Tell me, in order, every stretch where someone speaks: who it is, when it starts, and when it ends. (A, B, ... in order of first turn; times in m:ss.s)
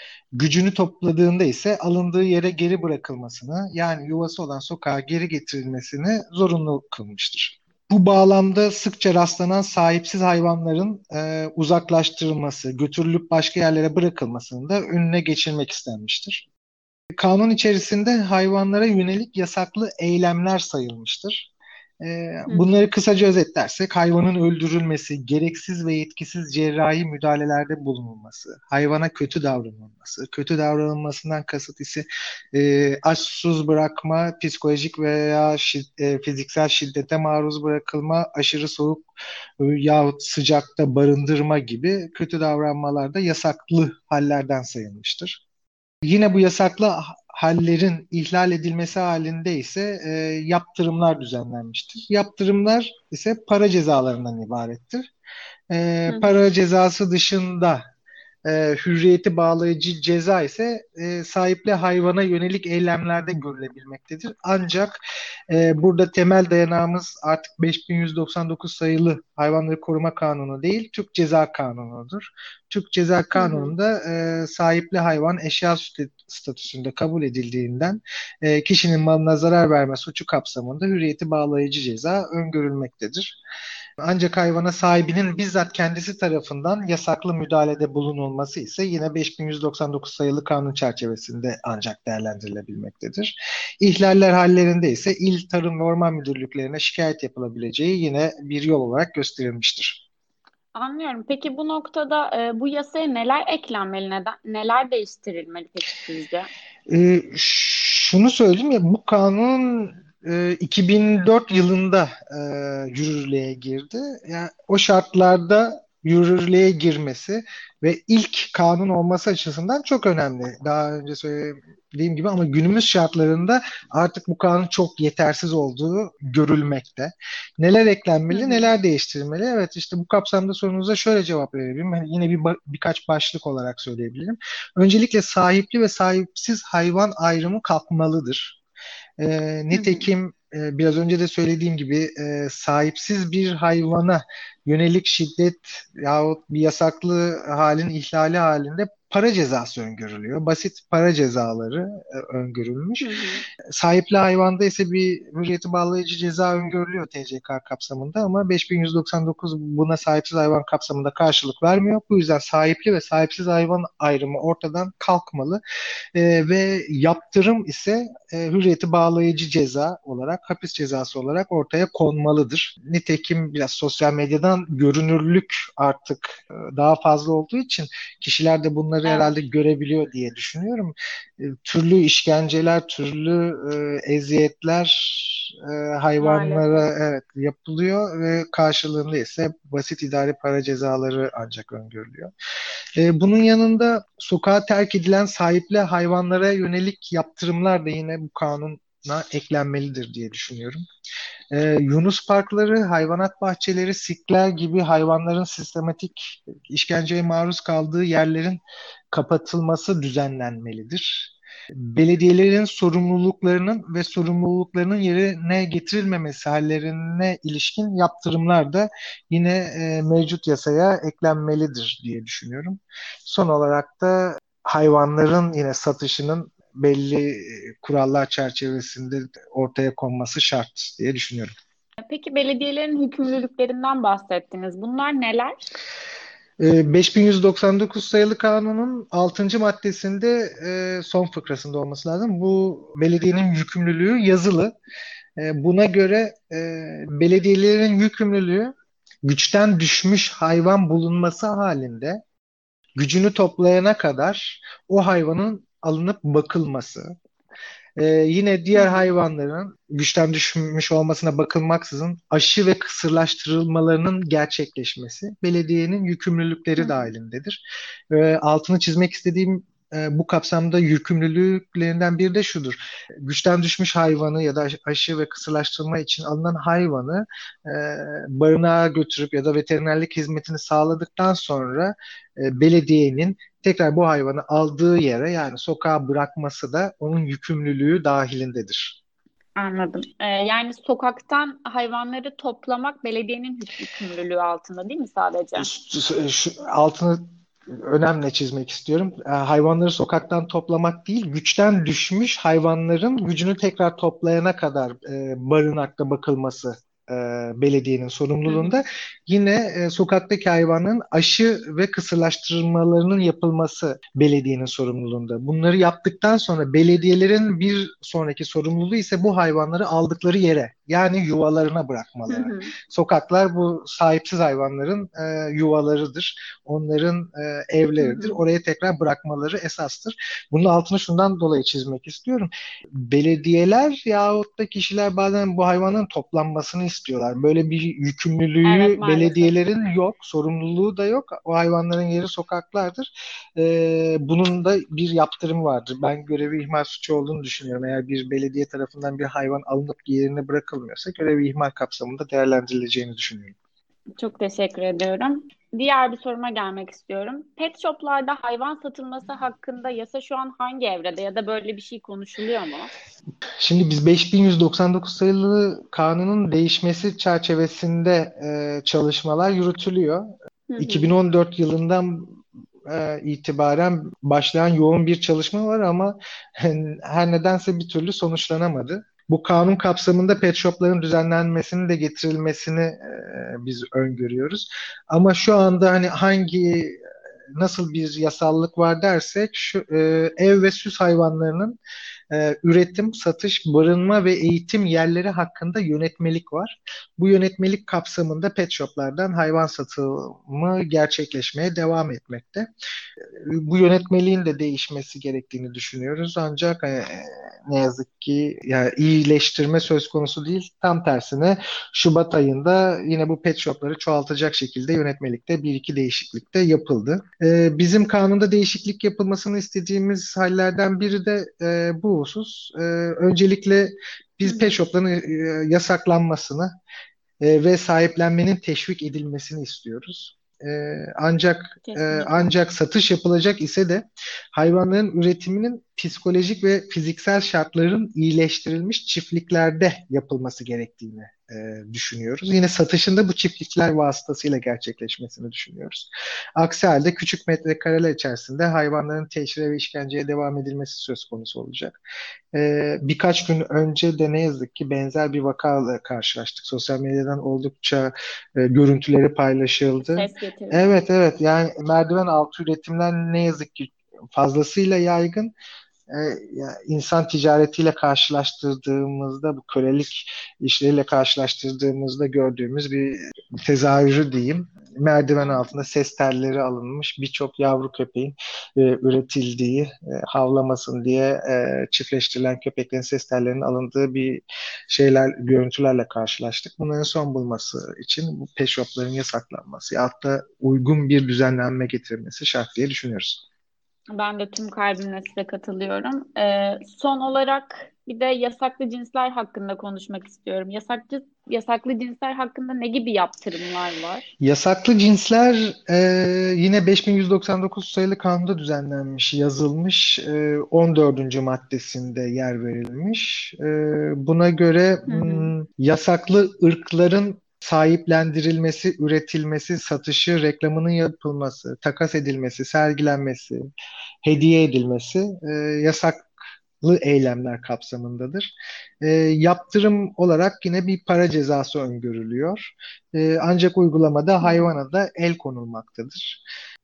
0:00.4-0:16.5 A
0:17.2-0:39.1 A
0:39.6-0:45.4 A
0:46.0-0:55.1 A
0:55.7-0:57.8 A
0:56.1-0:56.4 B
0:58.4-1:23.4 A
1:13.3-1:13.8 B
1:24.0-1:40.0 A
1:40.7-1:46.5 B
1:46.9-2:18.6 A
2:08.3-2:08.7 B
2:19.2-2:33.1 A
2:19.7-2:20.1 B
2:33.0-2:33.4 B
2:33.7-2:45.6 A
2:46.2-3:12.3 A
2:59.0-2:59.4 B
3:06.2-3:06.9 B
3:13.0-3:20.8 A
3:21.5-3:51.5 A
3:52.0-3:55.6 B
3:56.6-4:04.7 A
4:05.4-4:08.7 A
4:09.2-4:12.2 A
4:13.0-4:17.1 A
4:18.0-4:49.0 A
4:18.7-4:19.1 B
4:26.8-4:27.1 B
4:49.6-4:55.7 B
4:55.6-5:53.6 A
5:08.5-5:08.8 B
5:22.3-5:22.7 B
5:28.0-5:28.4 B
5:38.6-5:39.6 B
5:54.2-6:02.9 B
6:03.6-6:27.0 A
6:10.7-6:11.2 B
6:27.6-6:31.8 A
6:32.3-6:42.7 A
6:43.3-7:06.7 A
7:04.4-7:04.8 B
7:07.4-7:32.0 A
7:11.8-7:12.5 B
7:32.5-7:45.5 A
7:40.0-7:40.9 B
7:46.1-8:13.4 A
8:14.2-8:24.3 B
8:24.4-8:43.7 A
8:35.1-8:35.5 B
8:44.2-8:46.3 A
8:46.8-8:48.5 A
8:49.0-8:56.4 A
8:54.4-8:54.7 B